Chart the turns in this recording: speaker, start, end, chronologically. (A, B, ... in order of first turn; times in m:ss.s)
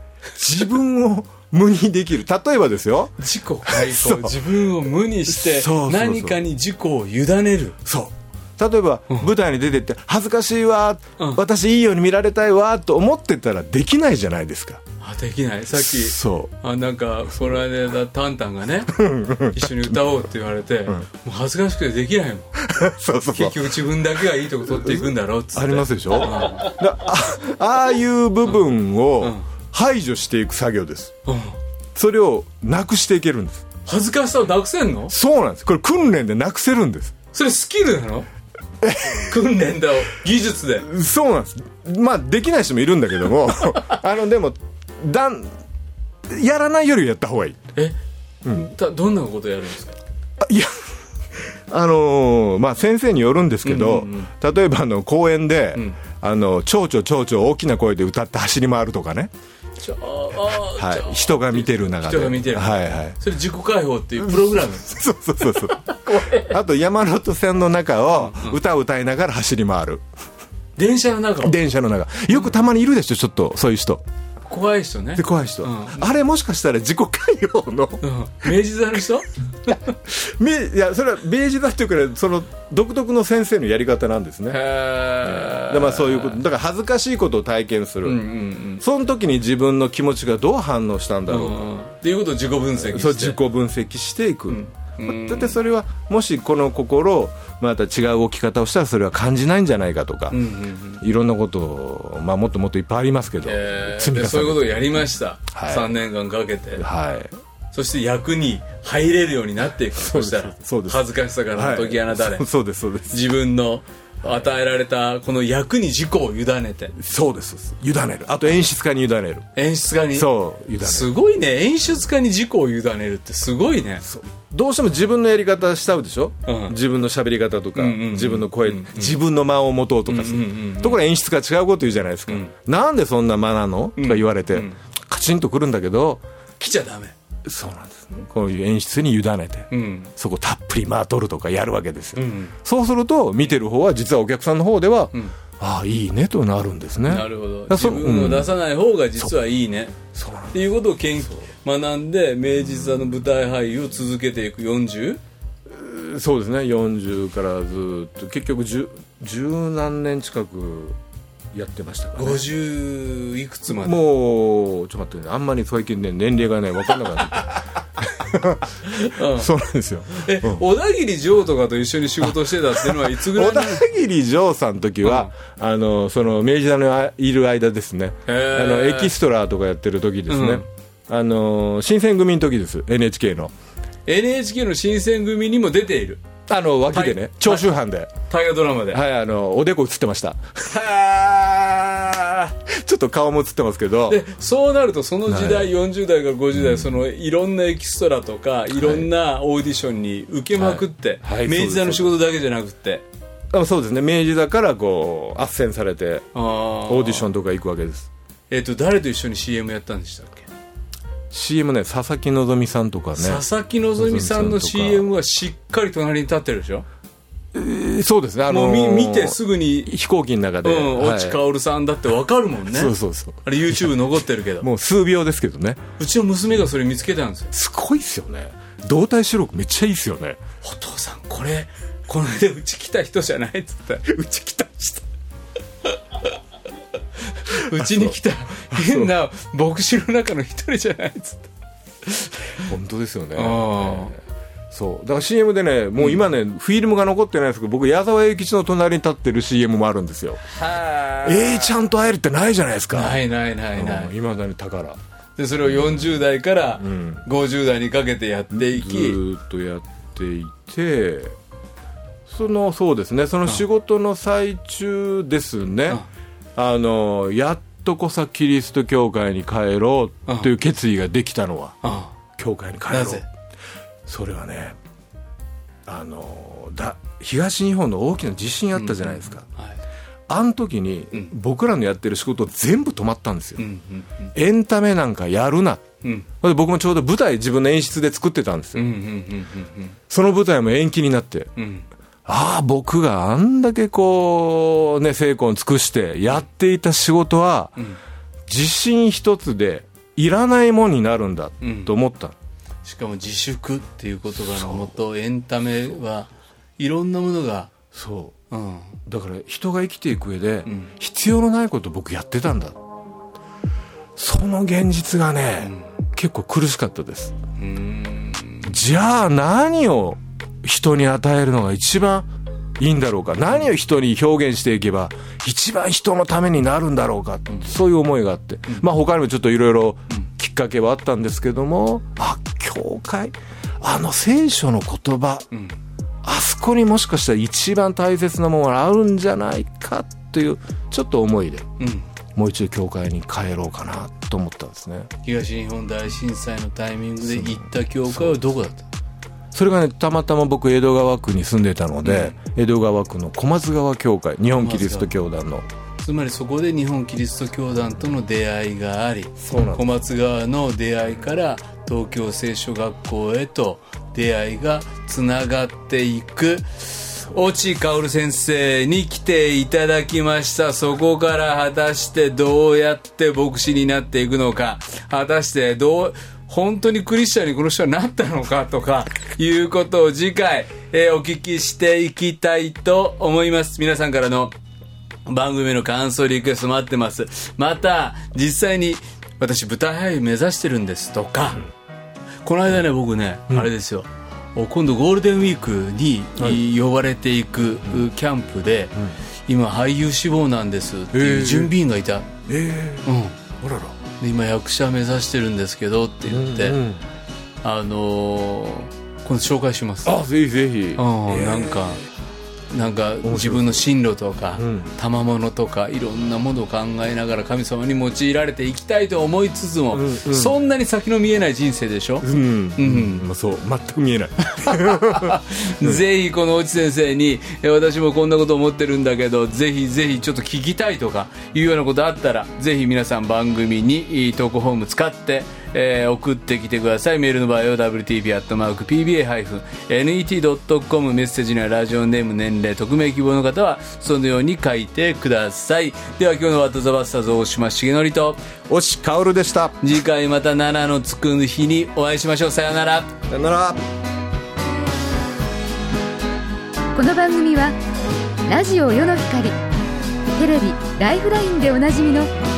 0:00.4-0:04.6 A
0:03.2-0:07.8 B
0:05.3-0:06.4 A
0:07.8-0:14.8 A
0:15.0-0:22.7 B
0:15.7-0:16.5 A
0:18.9-0:20.0 A
0:22.6-0:23.7 A
0:23.3-0:26.7 B
0:24.6-0:31.2 A
0:29.2-0:29.4 B
0:31.2-0:31.6 B
0:31.9-0:33.6 A
0:33.8-0:35.1 B
0:35.1-0:37.1 A
0:37.3-0:38.3 B
0:38.8-0:39.4 A
0:39.2-0:40.9 B
0:40.8-0:45.6 A
0:46.3-0:47.6 A
0:48.5-0:50.0 B
0:50.4-0:50.7 A
0:51.3-0:59.3 A
0:53.6-0:54.3 B
0:59.8-1:04.9 B
1:00.6-1:03.2 A
1:04.2-1:10.0 A
1:05.5-1:06.5 B
1:08.2-1:08.6 B
1:10.8-1:11.6 B
1:11.4-1:14.0 A
1:14.4-1:16.0 B
1:15.2-1:18.5 A
1:18.0-1:19.9 B
1:19.7-1:24.6 A
1:24.5-1:26.4 B
1:25.2-1:28.3 A
1:28.0-1:28.8 B
1:28.8-1:31.7 A
1:31.3-1:33.4 B
1:32.8-1:40.4 A
1:34.5-1:35.6 B
1:40.3-1:41.0 B
1:41.0-1:44.9 A
1:43.4-1:46.9 B
1:45.5-1:46.0 A
1:46.8-1:47.3 A
1:47.7-1:52.5 B
1:50.0-1:53.2 A
1:53.1-1:57.0 B
1:56.9-1:59.5 A
1:59.6-2:04.0 B
2:00.1-2:01.1 A
2:04.0-2:16.2 A
2:06.4-2:06.7 B
2:07.7-2:09.1 B
2:10.1-2:11.0 B
2:14.0-2:14.8 B
2:16.6-2:17.1 B
2:17.4-2:28.5 A
2:19.7-2:20.1 B
2:22.2-2:22.5 B
2:27.0-2:30.0 B
2:30.1-2:30.6 A
2:30.5-2:35.2 B
2:35.7-2:41.0 A
2:41.5-2:42.4 A
2:42.2-2:44.0 B
2:43.7-2:50.6 A
2:48.9-2:49.5 B
2:50.2-2:53.9 B
2:52.2-3:03.5 A
2:55.0-2:55.3 B
2:58.3-2:59.1 B
3:00.3-3:00.6 B
3:04.0-3:06.2 B
3:06.5-3:08.2 A
3:06.9-3:07.7 B
3:08.3-3:09.0 B
3:08.9-3:14.3 A
3:14.1-3:23.0 B
3:15.3-3:15.7 A
3:18.7-3:19.1 A
3:20.6-3:22.2 A
3:23.5-3:26.3 A
3:26.3-3:27.3 B
3:26.8-3:28.1 A
3:28.5-3:30.5 B
3:31.3-3:33.4 A
3:33.2-3:36.8 B
3:34.0-3:35.1 A
3:37.5-3:41.4 A
3:38.5-3:39.9 B
3:40.6-3:42.9 B
3:42.7-3:43.9 A
3:43.4-3:44.7 B
3:44.6-3:45.9 A
3:46.0-3:47.5 B
3:47.5-3:50.4 A
3:50.6-3:55.0 B
3:57.3-4:01.5 B
3:57.5-3:59.1 A
4:02.0-4:02.7 B
4:02.6-4:04.2 A
4:03.3-4:04.1 B
4:04.7-4:10.4 A
4:10.5-4:11.7 B
4:11.2-4:13.2 A
4:12.9-4:14.1 B
4:13.7-4:15.0 A
4:15.4-4:19.2 B
4:15.6-4:16.2 A
4:16.8-4:17.2 A
4:18.5-4:21.4 A
4:22.3-4:26.0 A
4:26.6-4:31.8 A
4:31.8-4:32.1 B
4:32.4-4:33.2 A
4:32.9-4:33.2 B
4:34.0-4:34.8 A
4:35.8-4:39.4 A
4:38.7-4:39.8 B
4:40.3-4:43.6 A
4:43.6-4:44.3 B
4:44.3-4:48.9 A
4:46.0-4:46.3 B
4:48.7-4:50.0 B
4:50.1-4:51.5 A
4:51.6-4:51.9 B
4:52.2-4:57.8 A
4:58.5-5:02.4 A
5:01.6-5:01.9 B
5:02.8-5:07.7 B
5:04.4-5:05.0 A
5:07.9-5:08.4 A
5:08.5-5:09.0 B
5:09.0-5:12.8 A
5:10.7-5:10.9 B
5:14.2-5:17.4 A
5:15.6-5:15.9 B
5:17.6-5:18.7 B
5:18.6-5:22.3 A
5:22.8-5:35.5 A
5:36.2-5:41.7 A
5:41.8-5:42.1 B
5:42.3-5:45.1 A
5:45.2-5:48.9 B
5:47.3-5:48.4 A
5:49.5-5:55.7 A
5:52.0-5:52.4 B
5:54.6-5:55.1 B
5:56.0-6:24.5 B
5:59.4-6:00.0 A
6:07.2-6:07.6 A
6:25.2-6:31.7 B
6:32.4-6:39.0 B
6:39.5-6:42.3 B
6:41.1-6:41.7 A
6:42.4-6:43.1 A
6:43.0-6:43.4 B
6:43.6-6:44.0 A
6:44.2-6:46.8 B
6:46.3-6:47.0 A
6:47.6-6:50.2 B
6:50.0-6:51.9 A
6:51.0-6:52.0 B
6:52.7-7:03.2 B
6:53.2-6:53.8 A
6:54.6-6:54.9 A
6:59.9-7:00.6 A
7:02.2-7:06.0 A
7:04.5-7:28.4 B
7:28.7-7:29.8 A
7:29.8-7:33.1 B
7:33.3-7:33.8 A
7:36.9-7:37.8 C
7:38.5-7:39.6 C
7:40.4-7:42.3 C